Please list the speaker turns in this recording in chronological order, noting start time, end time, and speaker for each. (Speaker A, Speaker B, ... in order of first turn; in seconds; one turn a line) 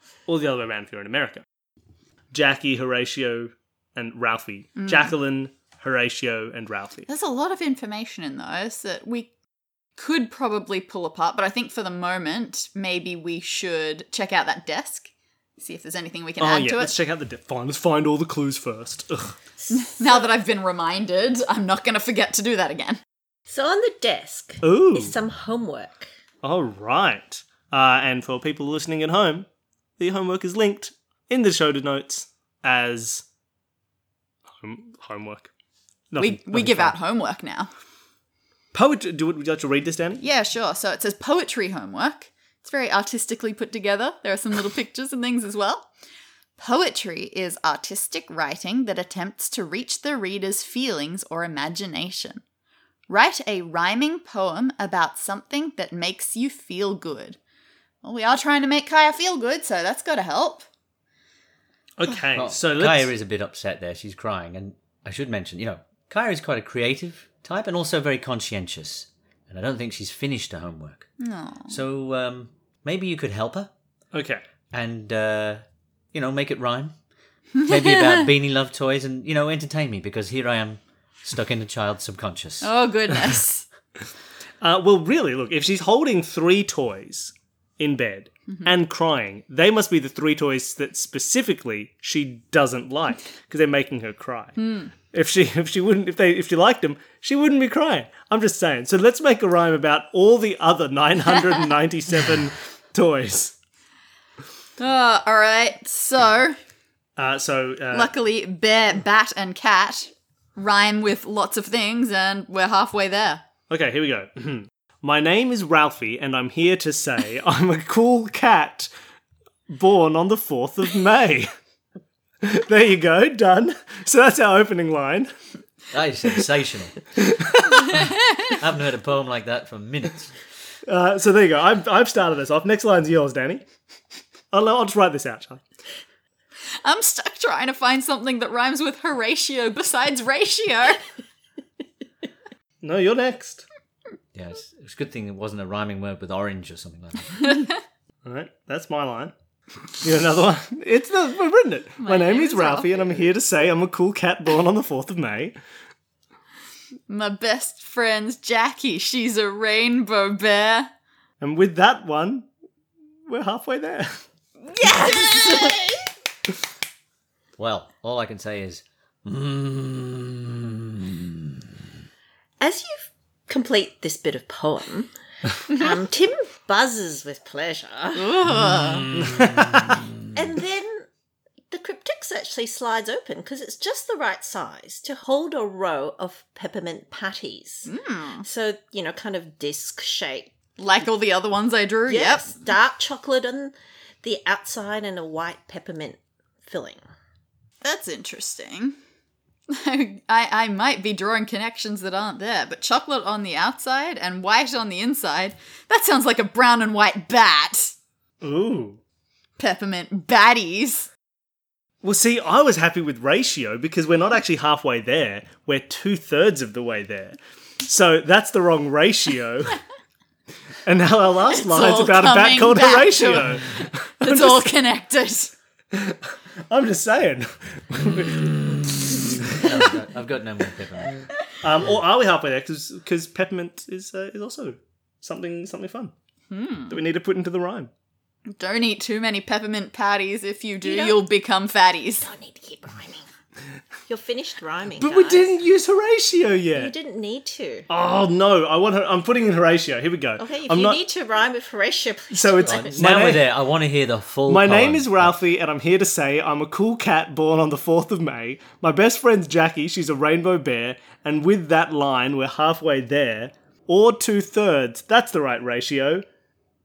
Speaker A: 0.3-1.4
Speaker A: 2.3-7.1
Speaker B: 4.8-5.1
Speaker B: 7.1-9.3
Speaker B: 10.0-16.9
Speaker A: 16.4-19.3
Speaker C: 19.6-20.3
Speaker B: 19.7-23.0
Speaker C: 23.5-26.1
Speaker A: 24.6-25.1
Speaker A: 26.4-29.5
Speaker A: 30.0-33.2
Speaker A: 34.6-35.5
Speaker A: 36.1-37.0
Speaker B: 36.2-37.7
Speaker A: 38.7-40.2
Speaker B: 40.2-45.9
Speaker B: 46.6-52.4
Speaker B: 53.1-57.4
Speaker B: 58.0-60.6
Speaker A: 62.0-63.1
Speaker D: 62.3-71.1
Speaker B: 71.2-71.8
Speaker D: 71.7-73.7
Speaker A: 74.1-74.4
Speaker D: 74.7-76.9
Speaker B: 77.6-78.3
Speaker D: 77.6-82.7
Speaker B: 82.6-83.6
Speaker A: 84.6-103.5
Speaker B: 94.6-94.9
Speaker B: 104.8-106.5
Speaker A: 107.2-108.1
Speaker B: 107.9-113.4
Speaker A: 113.7-118.9
Speaker A: 119.7-121.5
Speaker A: 122.4-125.3
Speaker D: 125.9-127.0
Speaker A: 127.2-127.9
Speaker D: 127.9-130.3
Speaker A: 130.9-133.6
Speaker A: 134.5-135.6
Speaker B: 136.8-141.0
Speaker A: 142.8-143.6
Speaker D: 144.3-147.4
Speaker B: 147.4-147.7
Speaker A: 148.2-149.3
Speaker A: 150.0-155.6
Speaker B: 152.0-153.1
Speaker B: 157.1-160.9
Speaker A: 161.4-162.5
Speaker A: 163.3-164.2
Speaker B: 164.7-166.0
Speaker C: 164.9-165.8
Speaker D: 167.6-171.7
Speaker C: 172.6-178.4
Speaker B: 178.1-179.1
Speaker D: 178.7-180.1
Speaker A: 179.2-179.9
Speaker C: 180.3-181.1
Speaker C: 181.7-190.5
Speaker B: 187.8-188.4
Speaker B: 190.8-192.6
Speaker C: 192.1-197.0
Speaker B: 197.8-198.9
Speaker B: 199.7-207.9
Speaker A: 208.4-209.0
Speaker B: 209.6-211.1
Speaker A: 212.0-219.8
Speaker A: 220.8-224.7
Speaker B: 221.5-225.5
Speaker A: 225.9-229.6
Speaker D: 229.5-231.2
Speaker A: 231.6-236.1
Speaker B: 236.5-237.0
Speaker A: 236.9-237.9
Speaker B: 238.6-242.3
Speaker C: 240.8-241.2
Speaker C: 242.2-243.2
Speaker C: 244.1-245.5
Speaker A: 245.0-246.9
Speaker C: 246.7-247.9
Speaker A: 247.9-251.0
Speaker C: 250.4-253.1
Speaker A: 252.3-253.5
Speaker D: 252.6-255.3
Speaker A: 254.5-266.2